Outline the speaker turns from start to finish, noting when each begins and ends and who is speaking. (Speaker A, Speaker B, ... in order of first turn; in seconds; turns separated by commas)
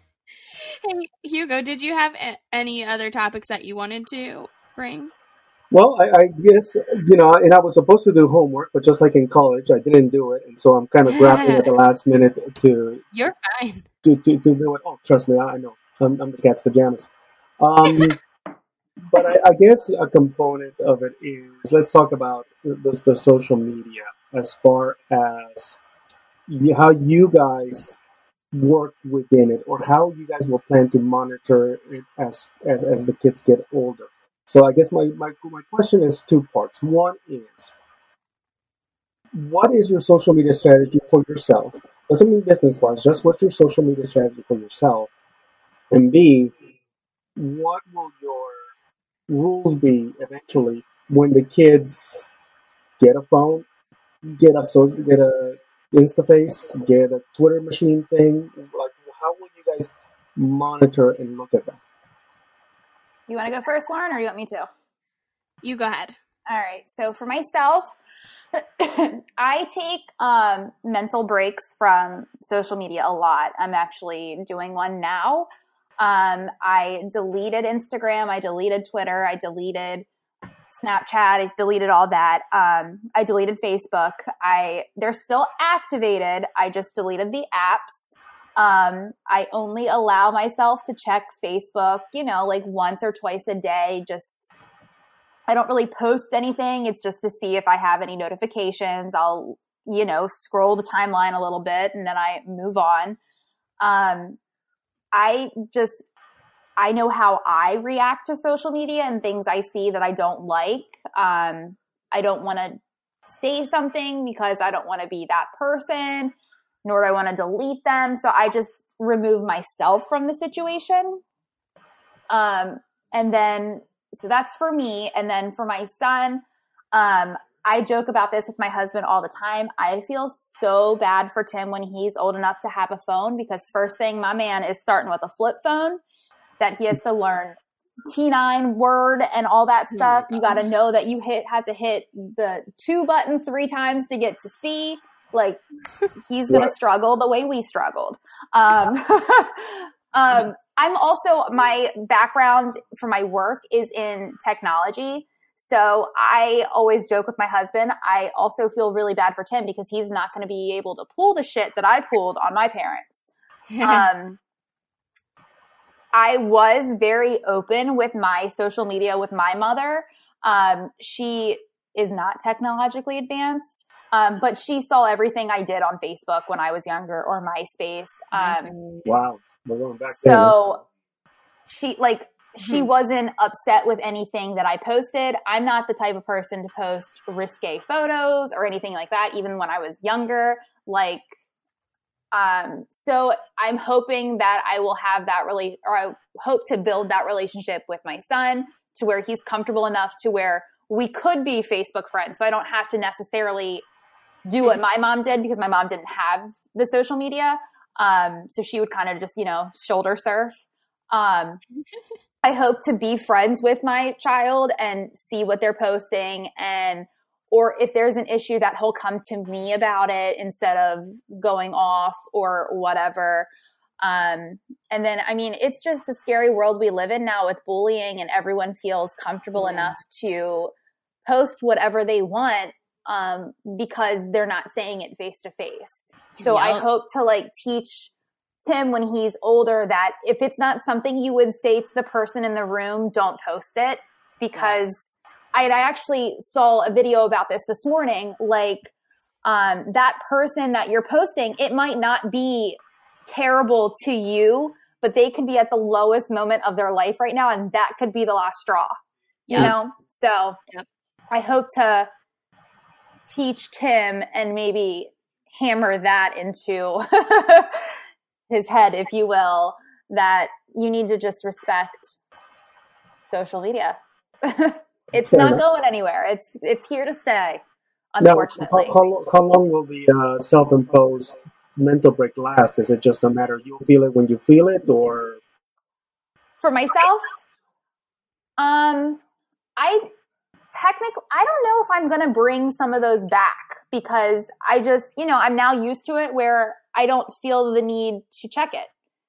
Speaker A: 0.4-5.1, Speaker B: 5.7-13.0, Speaker A: 11.1-11.8, Speaker A: 13.1-13.8, Speaker B: 14.0-17.1, Speaker B: 17.6-18.2, Speaker B: 19.1-25.8, Speaker B: 26.5-28.0, Speaker B: 28.5-37.7, Speaker B: 39.4-45.1, Speaker B: 45.9-46.5, Speaker B: 47.4-48.7, Speaker B: 49.3-52.3, Speaker B: 53.0-53.7, Speaker B: 54.3-61.8, Speaker C: 63.3-64.7, Speaker A: 65.6-66.2, Speaker C: 66.5-68.0, Speaker C: 68.8-75.5, Speaker C: 76.0-80.1, Speaker C: 80.7-94.5, Speaker C: 95.5-103.2, Speaker C: 103.8-104.4, Speaker C: 105.1-106.1, Speaker C: 106.8-112.8, Speaker C: 113.3-116.3, Speaker C: 116.8-121.2, Speaker C: 122.3-136.0, Speaker C: 136.6-145.6, Speaker A: 139.9-140.6, Speaker C: 146.2-163.3, Speaker A: 163.7-164.1, Speaker C: 163.8-164.4, Speaker C: 166.1-178.7, Speaker A: 178.3-179.2, Speaker B: 179.1-180.6, Speaker C: 180.2-180.8, Speaker C: 181.7-191.3, Speaker C: 192.3-203.8, Speaker C: 204.5-211.6, Speaker C: 212.4-223.5, Speaker C: 224.0-230.7, Speaker A: 229.6-229.9, Speaker C: 231.3-238.1, Speaker A: 236.4-236.8, Speaker C: 238.7-248.9, Speaker C: 249.4-258.9, Speaker A: 259.5-259.7, Speaker C: 259.5-260.6, Speaker C: 261.3-262.1, Speaker C: 263.3-267.9, Speaker C: 268.5-272.2, Speaker C: 273.3-277.6, Speaker B: 275.2-275.6, Speaker C: 278.1-278.9, Speaker B: 278.2-285.4, Speaker C: 286.6-287.4, Speaker C: 288.6-289.2, Speaker C: 289.8-290.1, Speaker C: 290.7-298.9